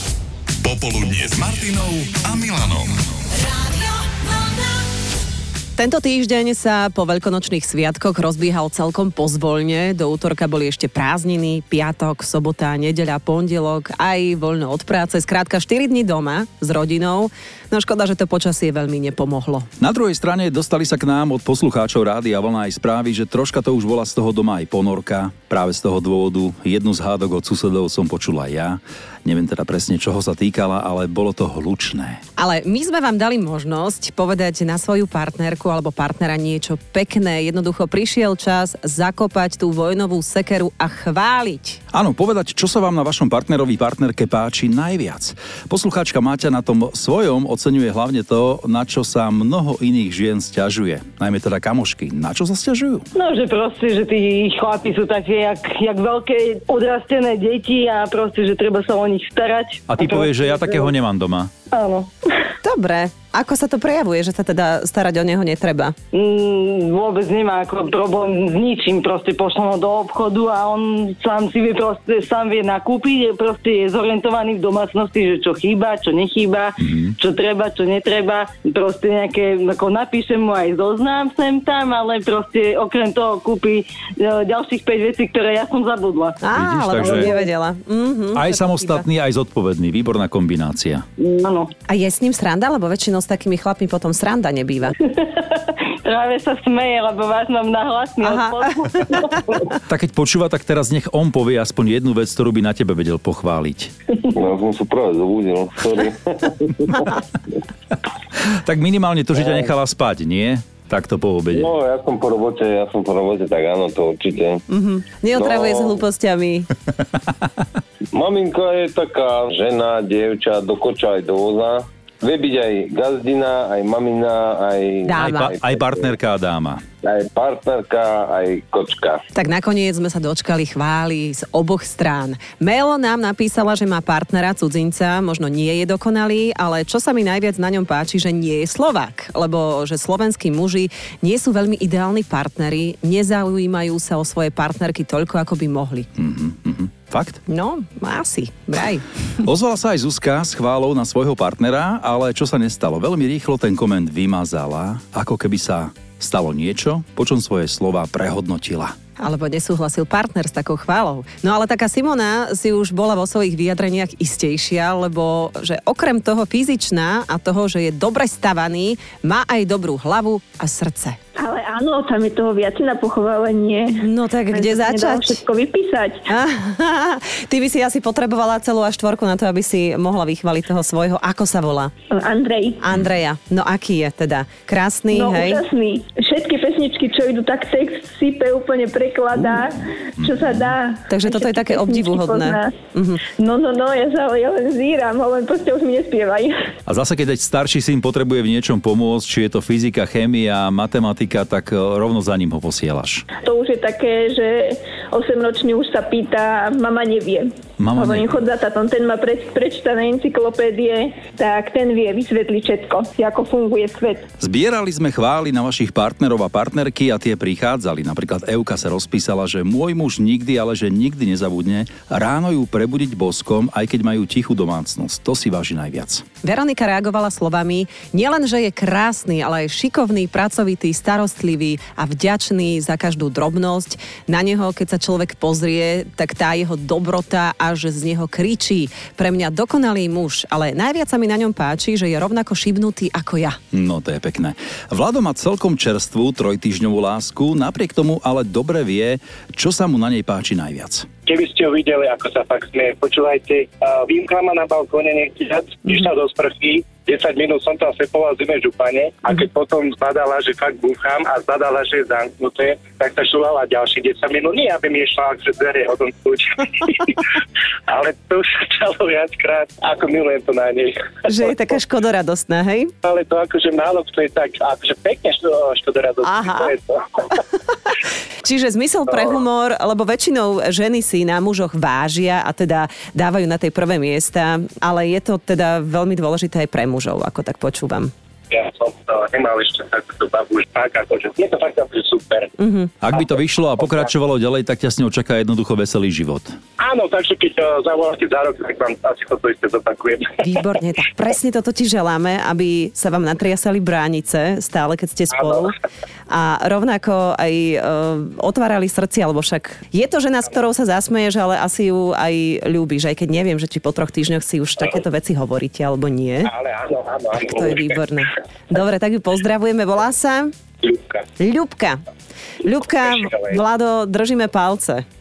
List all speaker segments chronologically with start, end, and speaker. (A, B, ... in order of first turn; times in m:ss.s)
0:00.6-0:03.0 A
0:03.4-0:04.3 B
0:05.8-0:19.7 B
0:19.8-0:32.2 C
0:32.4-0:41.8 B
0:41.9-0:53.1 C
0:53.1-1:00.9 D
0:59.9-1:01.5 C
1:01.7-1:02.1 D
1:02.6-1:05.9 B
1:06.1-1:26.4 D
1:16.8-1:17.1 C
1:26.4-1:29.0 B
1:26.5-1:27.3 C
1:28.3-1:31.0 C
1:31.2-1:31.7 D
1:31.9-1:34.9 B
1:35.2-1:39.6 D
1:38.2-1:39.0 B
1:39.8-1:43.9 C
1:44.3-1:47.1 E
1:48.4-1:51.7 C
1:51.5-1:54.6 E
1:54.7-1:56.7 B
1:55.3-1:56.0 E
1:58.1-2:06.1 E
2:05.1-2:05.5 B
2:05.2-2:06.8 C
2:07.0-2:09.2 E
2:09.3-2:26.1 B
2:26.2-2:27.4 C
2:27.5-2:29.0 B
2:29.4-2:38.9 C
2:39.2-2:51.2 B
2:51.4-2:56.3 F
2:54.0-2:55.4 B
2:56.3-3:01.9 B
3:02.1-3:02.8 F
3:02.8-3:05.6 B
3:05.1-3:16.6 F
3:10.2-3:10.7 C
3:11.1-3:13.2 B
3:16.9-3:23.2 C
3:23.4-3:34.2 F
3:27.8-3:28.4 C
3:34.4-3:46.2 C
3:46.4-4:03.6 B
4:03.7-4:11.1 C
4:11.2-4:27.3 G
4:27.9-4:31.5 G
4:31.3-4:32.9 B
4:33.0-4:37.4 G
4:36.2-4:36.7 B
4:38.4-4:48.1 B
4:48.5-4:52.5 G
4:52.6-4:52.9 B
4:53.0-4:56.5 C
4:56.8-5:00.4 G
5:00.4-5:05.7 B
5:05.3-5:05.6 G
5:06.3-5:16.5 B
5:16.4-5:17.9 G
5:17.3-5:20.5 B
5:20.8-5:21.2 G
5:21.4-5:22.0 B
5:22.6-5:25.0 B
5:22.9-5:23.6 G